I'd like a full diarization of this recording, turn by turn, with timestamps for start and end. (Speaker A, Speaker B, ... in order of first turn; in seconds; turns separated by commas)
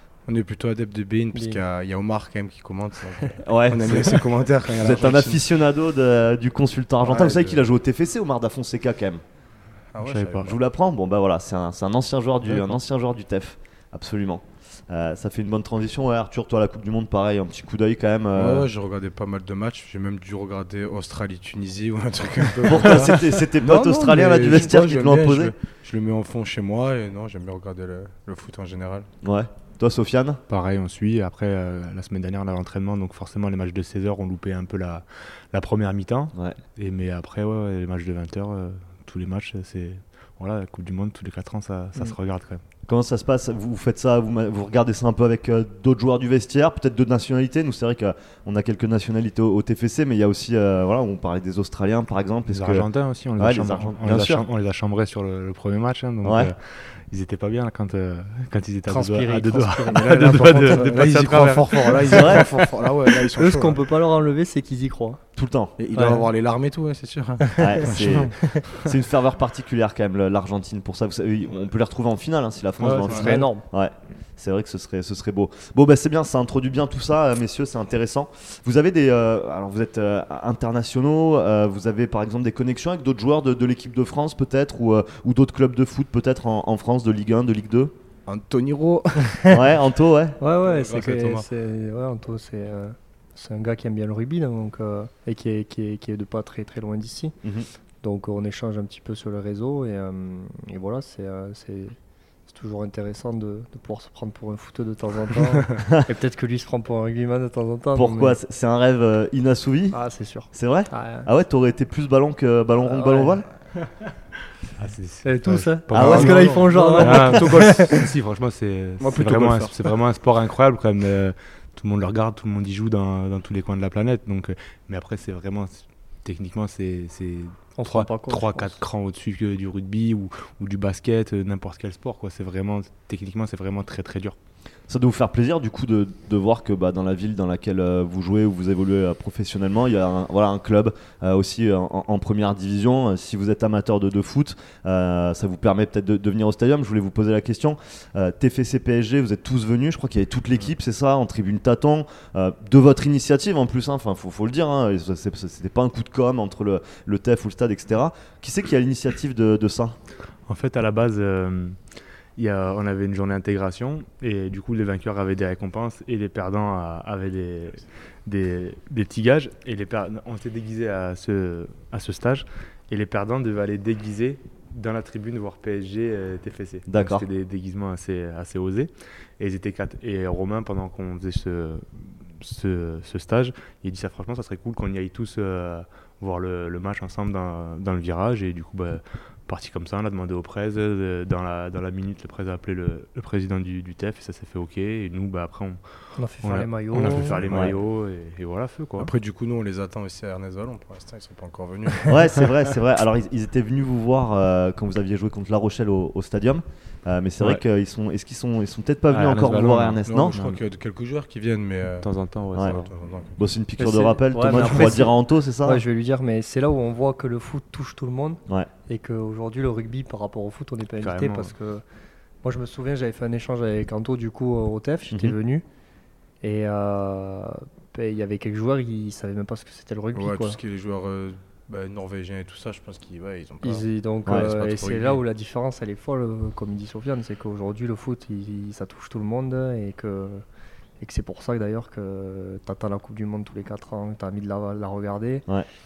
Speaker A: 0.2-5.5, Speaker B: 1.3-1.6, Speaker C: 3.4-9.2, Speaker A: 7.1-7.6, Speaker A: 9.9-10.5, Speaker D: 10.0-10.5, Speaker C: 10.4-18.7, Speaker A: 18.3-29.1, Speaker C: 22.6-25.5, Speaker C: 29.2-30.4, Speaker D: 30.5-42.6, Speaker C: 42.9-52.9, Speaker D: 52.5-62.4, Speaker C: 53.4-54.4, Speaker C: 56.2-56.5, Speaker B: 58.9-61.0, Speaker A: 60.6-63.8, Speaker C: 62.1-62.5, Speaker B: 63.3-65.2, Speaker C: 65.3-65.8, Speaker A: 65.8-68.9, Speaker B: 65.9-66.2, Speaker B: 67.5-68.6, Speaker C: 67.6-87.9, Speaker D: 72.8-73.2, Speaker A: 72.9-73.4, Speaker B: 72.9-73.6, Speaker A: 88.3-89.5, Speaker C: 89.5-90.4, Speaker B: 90.4-97.3, Speaker A: 90.6-91.5, Speaker B: 98.0-101.9, Speaker B: 102.5-108.4, Speaker C: 108.0-110.0, Speaker B: 109.9-111.3, Speaker C: 110.5-113.5, Speaker B: 112.8-113.4, Speaker D: 114.8-134.3, Speaker B: 115.2-118.1, Speaker C: 115.9-116.4, Speaker A: 116.0-118.0, Speaker A: 119.0-120.0, Speaker B: 127.8-128.8, Speaker C: 134.9-159.9, Speaker D: 160.5-161.8, Speaker D: 162.4-199.1, Speaker C: 176.9-177.2, Speaker B: 196.2-197.4, Speaker A: 197.0-197.7, Speaker C: 197.5-197.8, Speaker A: 199.0-202.5, Speaker C: 202.1-210.4, Speaker D: 209.1-210.6, Speaker A: 210.0-213.4, Speaker D: 212.0-212.9, Speaker C: 213.4-215.8, Speaker B: 213.8-221.8, Speaker D: 221.0-221.5, Speaker B: 222.4-225.6, Speaker B: 226.4-230.6, Speaker A: 230.1-235.2, Speaker B: 233.6-240.4, Speaker B: 241.0-245.4